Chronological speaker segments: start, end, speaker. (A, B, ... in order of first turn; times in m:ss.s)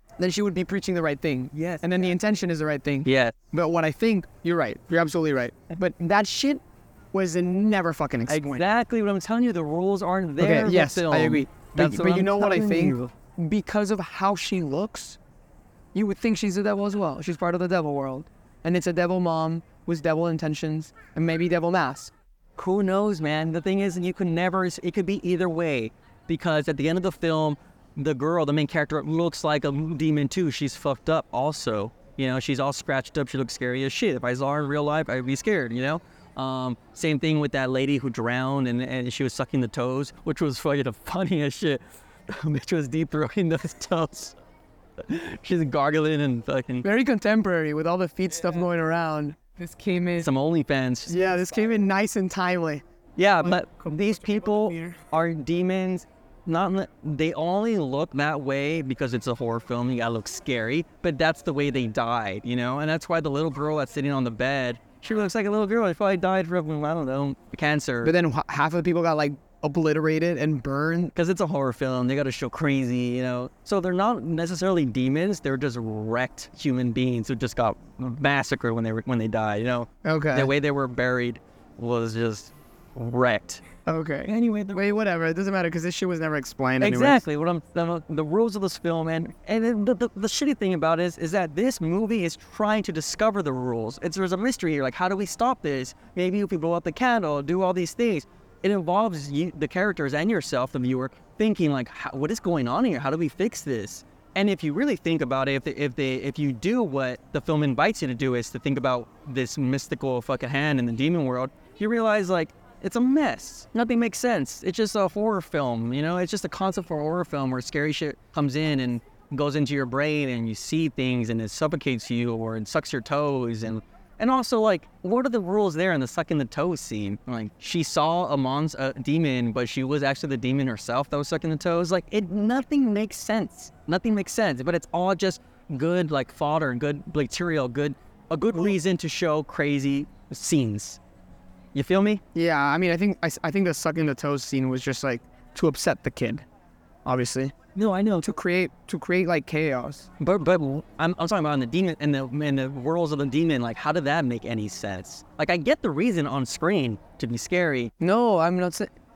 0:00.2-0:08.6 A
0:01.5-0:01.9 B
0:03.0-0:03.4 B
0:08.3-0:13.1 B
0:10.4-0:15.2 A
0:15.9-0:22.1 A
0:22.6-0:44.4 B
0:45.0-0:46.9 B
0:46.8-0:50.3 A
0:50.2-0:51.2 B
0:51.1-0:52.8 A
0:53.2-1:08.1 B
0:53.4-0:55.0 A
1:08.0-1:11.1 A
1:11.1-1:23.6 B
1:20.0-1:20.5 A
1:23.9-1:27.2 A
1:24.2-1:24.8 B
1:26.8-2:21.0 B
2:21.7-2:22.2 B
2:22.4-2:26.4 A
2:27.0-2:27.6 A
2:27.7-2:28.3 B
2:28.2-2:30.1 A
2:30.2-2:37.9 B
2:38.0-2:38.9 A